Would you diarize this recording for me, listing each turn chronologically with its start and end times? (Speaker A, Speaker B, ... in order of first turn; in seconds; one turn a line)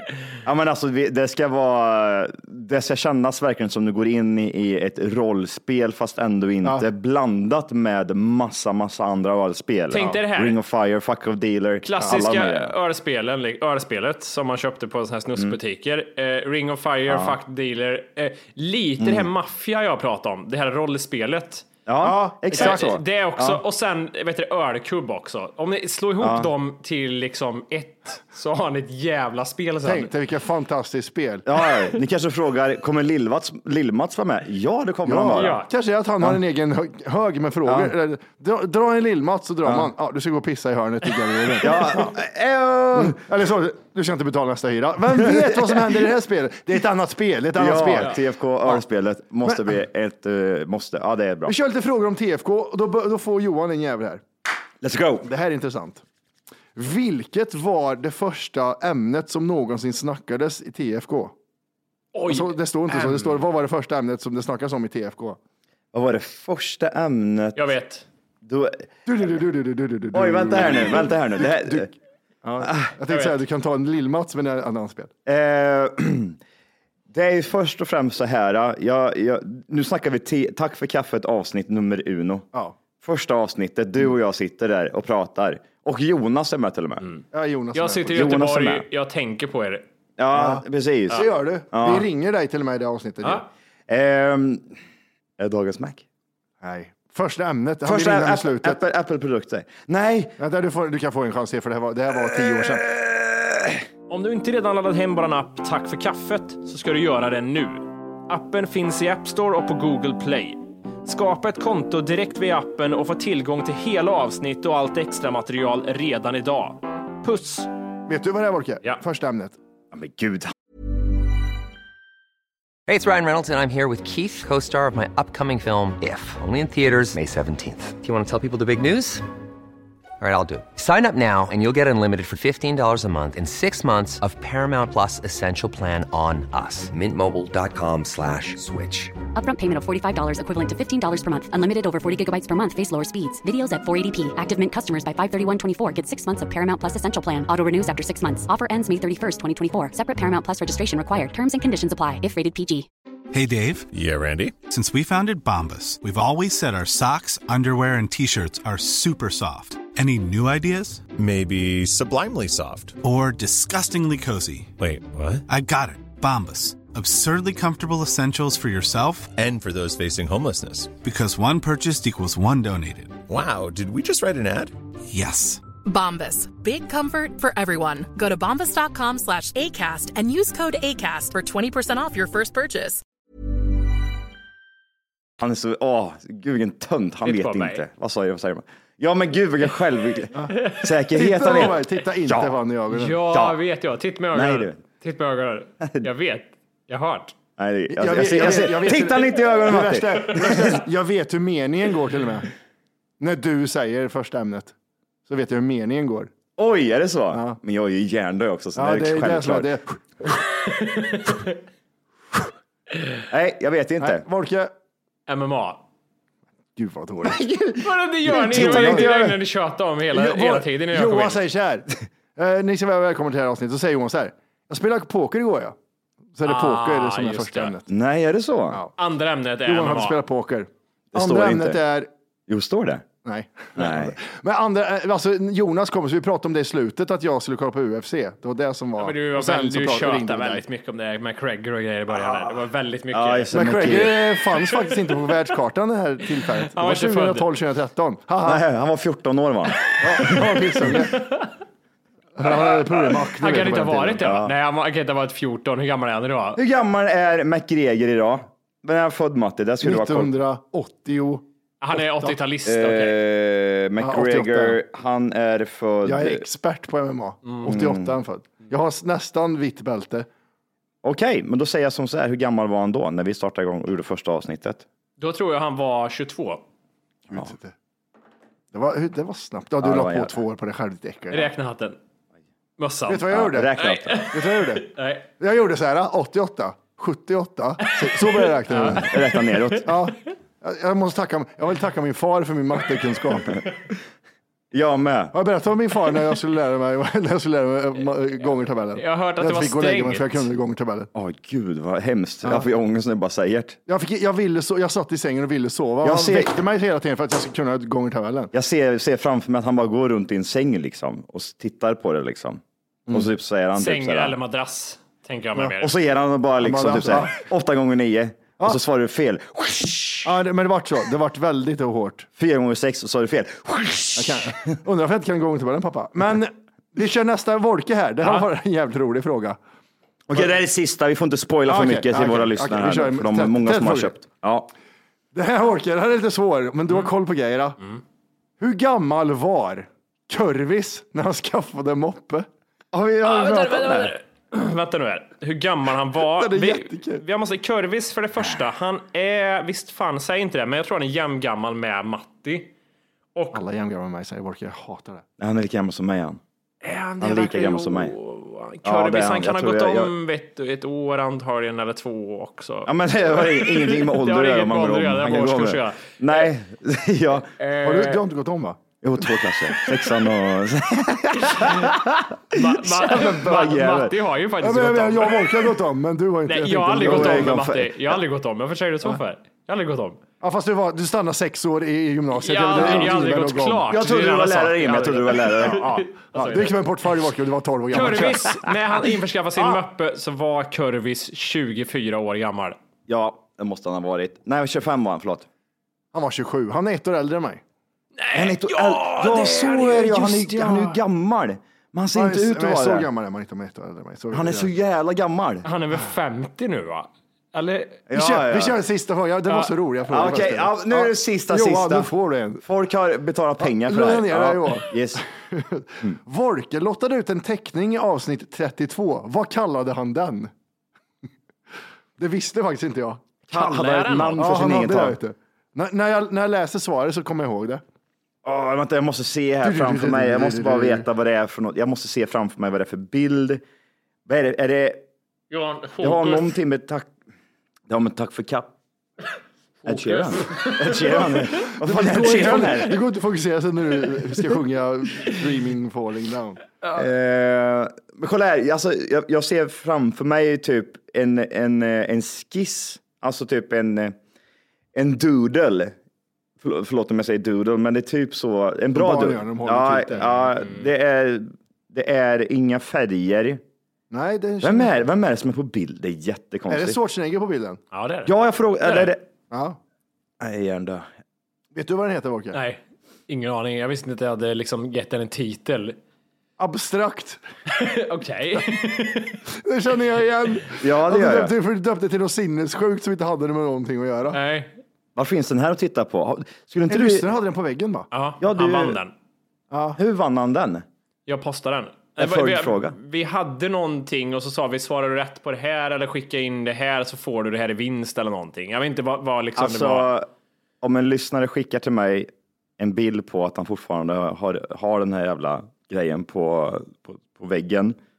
Speaker A: 0.4-12.7
Speaker B: 9.9-10.6
Speaker B: 11.8-21.7
Speaker A: 17.1-17.4
Speaker A: 19.0-19.3
Speaker A: 21.9-23.6
Speaker C: 22.0-22.9
Speaker B: 22.5-30.1
Speaker A: 26.2-26.5
Speaker C: 29.8-31.4
Speaker A: 31.4-35.6
Speaker C: 35.0-42.1
Speaker B: 35.3-35.7
Speaker A: 37.6-37.9
Speaker A: 39.6-39.9
Speaker A: 41.6-43.2
Speaker C: 42.9-48.8
Speaker A: 45.2-45.9
Speaker A: 47.5-51.5
Speaker C: 51.5-54.2
Speaker A: 54.8-55.3
Speaker C: 55.2-56.0
Speaker C: 56.8-61.3
Speaker B: 62.1-63.4
Speaker C: 62.3-65.4
Speaker A: 65.9-67.7
Speaker B: 67.5-68.0
Speaker A: 68.4-68.9
Speaker C: 69.0-71.9
Speaker A: 70.1-71.9
Speaker C: 72.4-75.1
Speaker A: 72.6-72.9
Speaker B: 73.1-73.4
Speaker A: 75.2-76.4
Speaker A: 77.1-82.5
Speaker A: 83.0-87.0
Speaker C: 87.3-88.3
Speaker B: 87.7-89.8
Speaker A: 88.1-88.8
Speaker A: 90.2-92.1
Speaker C: 90.3-93.5
Speaker A: 93.9-94.8
Speaker A: 95.4-96.0
Speaker C: 96.6-98.8
Speaker A: 97.8-100.4
Speaker C: 100.4-102.9
Speaker A: 102.8-103.8
Speaker B: 104.1-117.7
Speaker C: 118.1-119.5
Speaker A: 119.9-120.5
Speaker D: 122.9-129.2
Speaker D: 130.2-139.1
Speaker E: 139.3-152.9
Speaker F: 153.3-153.9
Speaker G: 153.9-154.6
Speaker F: 154.6-161.1
Speaker G: 161.2-163.0
Speaker F: 163.0-164.7
Speaker G: 164.8-165.4
Speaker F: 165.5-169.3
Speaker G: 169.4-170.9
Speaker F: 171.0-173.2
Speaker G: 173.3-174.7
Speaker F: 175.1-175.6
Speaker H: 175.8-183.0
Speaker A: 185.4-192.6
Speaker B: 187.2-187.8
Speaker C: 191.1-193.2
Speaker B: 192.9-197.3
Speaker A: 193.2-193.6
Speaker A: 194.3-194.8
Speaker A: 195.8-196.1
Speaker A: 197.6-200.8
Speaker C: 197.9-202.5
Speaker C: 203.2-204.7
Speaker C: 205.3-206.3
Speaker A: 206.6-209.7
Speaker C: 207.3-207.6
Speaker C: 208.8-209.9
Speaker B: 210.6-211.5
Speaker A: 213.3-214.2
Speaker C: 214.0-214.7
Speaker B: 215.3-215.8
Speaker C: 216.8-217.4
Speaker A: 217.3-219.4
Speaker B: 217.8-221.4
Speaker C: 218.3-219.1
Speaker C: 220.1-225.8
Speaker C: 226.3-227.9
Speaker B: 226.4-227.7
Speaker A: 227.9-228.8
Speaker B: 229.0-230.2
Speaker C: 229.6-232.1
Speaker A: 231.1-231.8
Speaker A: 232.5-233.0
Speaker C: 233.2-240.6
Speaker A: 233.8-234.2
Speaker B: 239.0-243.5
Speaker A: 243.1-244.2
Speaker C: 243.5-248.6
Speaker B: 246.6-247.5
Speaker A: 248.4-250.6
Speaker C: 250.0-251.3
Speaker B: 250.9-251.5
Speaker C: 252.4-254.2
Speaker B: 252.4-256.6
Speaker A: 254.2-254.5
Speaker A: 256.6-260.3
Speaker C: 259.8-262.3
Speaker B: 261.8-263.2
Speaker A: 262.6-266.4
Speaker C: 264.0-264.8
Speaker C: 266.0-270.3
Speaker A: 267.6-268.2
Speaker A: 271.0-274.8
Speaker B: 275.2-276.6
Speaker C: 277.3-277.7
Speaker C: 278.7-281.5
Speaker A: 279.8-280.3
Speaker B: 281.3-282.0
Speaker B: 282.8-285.2
Speaker C: 283.1-284.9
Speaker A: 283.3-284.3
Speaker C: 285.4-289.1
Speaker B: 288.0-289.8
Speaker A: 288.8-289.9
Speaker C: 289.8-293.6
Speaker A: 294.7-295.3
Speaker C: 295.3-301.1
Speaker B: 298.9-300.5
Speaker A: 301.1-303.8
Speaker C: 303.9-308.5
Speaker A: 306.0-306.6
Speaker A: 308.5-314.4
Speaker B: 313.8-315.9
Speaker A: 315.6-320.3
Speaker C: 316.6-317.4
Speaker C: 320.2-322.3
Speaker A: 322.4-324.6
Speaker C: 324.1-329.6
Speaker B: 328.2-328.5
Speaker A: 330.3-334.7
Speaker C: 331.7-334.1
Speaker C: 335.3-337.8
Speaker C: 338.6-342.5
Speaker A: 342.9-344.1
Speaker B: 343.2-352.7
Speaker C: 346.3-347.2
Speaker B: 353.3-353.6
Speaker C: 353.5-355.2
Speaker A: 355.4-356.4
Speaker B: 356.8-366.5
Speaker A: 357.2-358.1
Speaker A: 358.8-360.1
Speaker A: 362.8-367.5
Speaker B: 367.6-368.2
Speaker C: 367.8-368.8
Speaker A: 369.0-374.2
Speaker B: 372.5-375.7
Speaker C: 374.6-377.5
Speaker B: 376.5-380.2
Speaker A: 377.0-378.2
Speaker C: 380.4-384.0
Speaker B: 382.3-386.8
Speaker A: 382.7-383.2
Speaker A: 383.9-386.4
Speaker C: 386.3-388.7
Speaker B: 387.9-392.8
Speaker A: 393.1-395.4
Speaker C: 396.1-397.6
Speaker B: 398.2-400.4
Speaker A: 398.3-403.1
Speaker C: 400.2-401.0
Speaker C: 402.1-404.7
Speaker A: 404.3-405.7
Speaker B: 405.6-408.0
Speaker A: 408.1-408.8
Speaker C: 408.1-412.6
Speaker B: 409.5-409.7
Speaker A: 410.1-415.2
Speaker C: 413.6-420.5
Speaker C: 422.2-423.2
Speaker A: 423.5-425.2
Speaker B: 423.5-424.5
Speaker C: 424.4-427.8
Speaker A: 428.4-433.6
Speaker C: 429.6-431.1
Speaker A: 434.2-435.0
Speaker B: 435.5-436.6
Speaker A: 436.0-437.1
Speaker A: 437.9-438.7
Speaker B: 439.8-441.6
Speaker A: 439.9-443.0
Speaker C: 441.8-446.6
Speaker A: 446.9-454.1
Speaker A: 454.9-455.9
Speaker A: 456.6-463.6
Speaker C: 458.9-460.5
Speaker C: 464.1-464.9
Speaker A: 464.6-467.0
Speaker C: 466.7-467.8
Speaker B: 467.9-469.1
Speaker A: 468.2-469.2
Speaker C: 469.5-469.8
Speaker A: 470.4-471.1
Speaker C: 471.7-472.6
Speaker B: 472.5-476.0
Speaker C: 476.6-477.4
Speaker B: 477.7-479.4
Speaker C: 479.5-484.4
Speaker A: 480.8-481.5
Speaker B: 484.3-484.7
Speaker A: 485.1-487.3
Speaker C: 486.9-488.1
Speaker B: 488.1-489.1
Speaker A: 488.4-489.0
Speaker C: 489.7-490.0
Speaker A: 489.9-490.9
Speaker B: 491.3-500.1
Speaker A: 492.2-492.9
Speaker A: 499.6-500.3
Speaker A: 500.8-507.9